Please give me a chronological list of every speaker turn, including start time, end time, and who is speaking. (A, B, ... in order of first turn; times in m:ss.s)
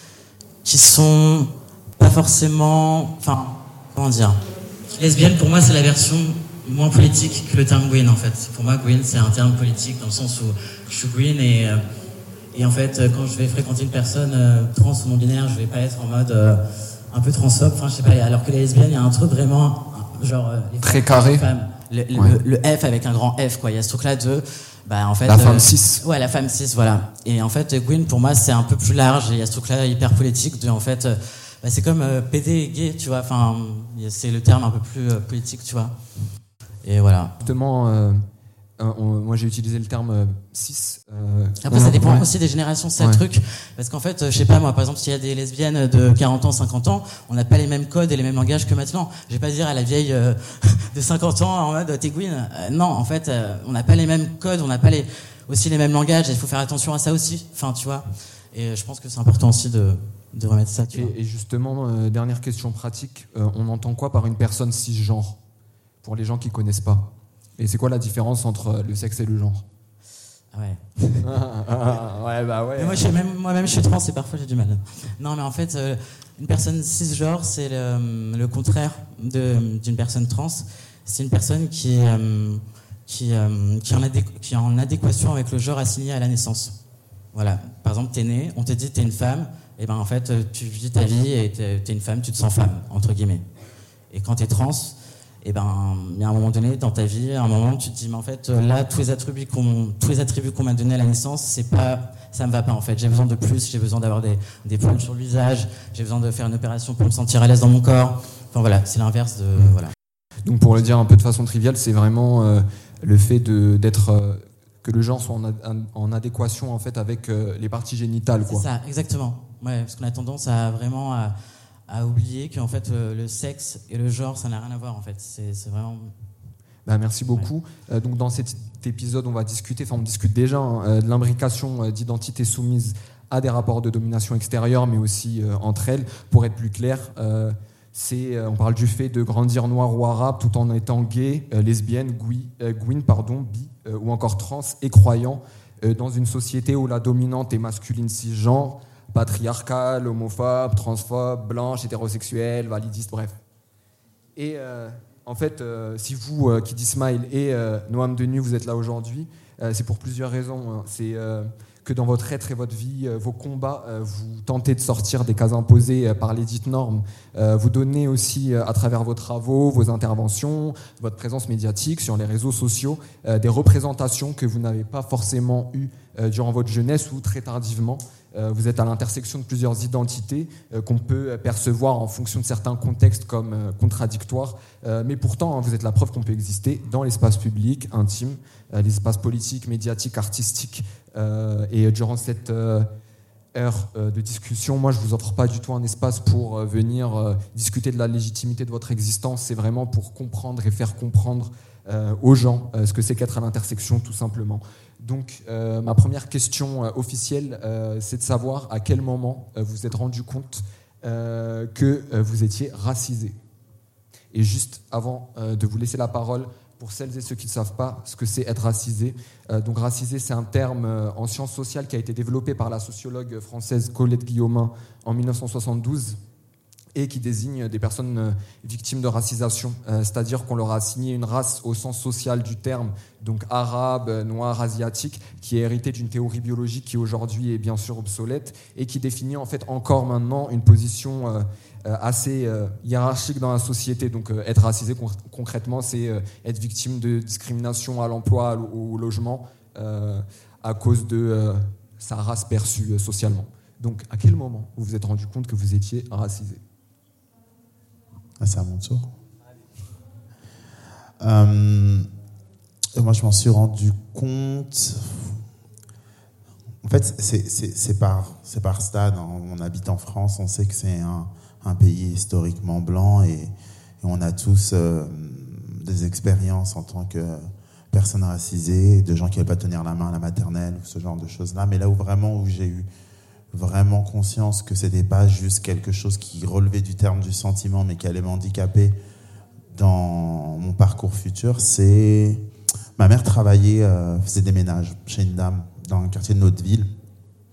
0:00.6-0:04.4 A
0:05.0-0:11.8 A
0:12.5-0:36.0 A
0:20.8-0:21.5 B
0:25.3-0:26.0 B
0:36.8-0:37.4 A
0:37.4-0:38.3 B
0:38.8-0:42.3 B
0:41.6-1:01.1 A
1:00.9-1:05.4 B
1:06.0-1:09.6 B
1:10.5-1:11.3 A
1:11.2-1:13.1 B
1:12.8-1:26.8 A
1:27.3-1:33.4 A
1:34.1-1:49.9 A
1:50.4-1:58.7 B
1:58.5-2:01.3 A
2:01.9-2:06.1 A
2:06.9-2:33.4 B
2:34.4-3:12.9 B
3:13.6-3:33.4 B
3:34.3-3:46.2 B
3:47.0-4:16.6 B
4:18.4-4:19.1 C
4:21.2-4:22.1 C
4:23.0-4:25.4 C
4:26.8-4:42.9 C
4:43.5-4:49.0 C
4:49.7-4:52.4 C
4:53.0-4:56.9 C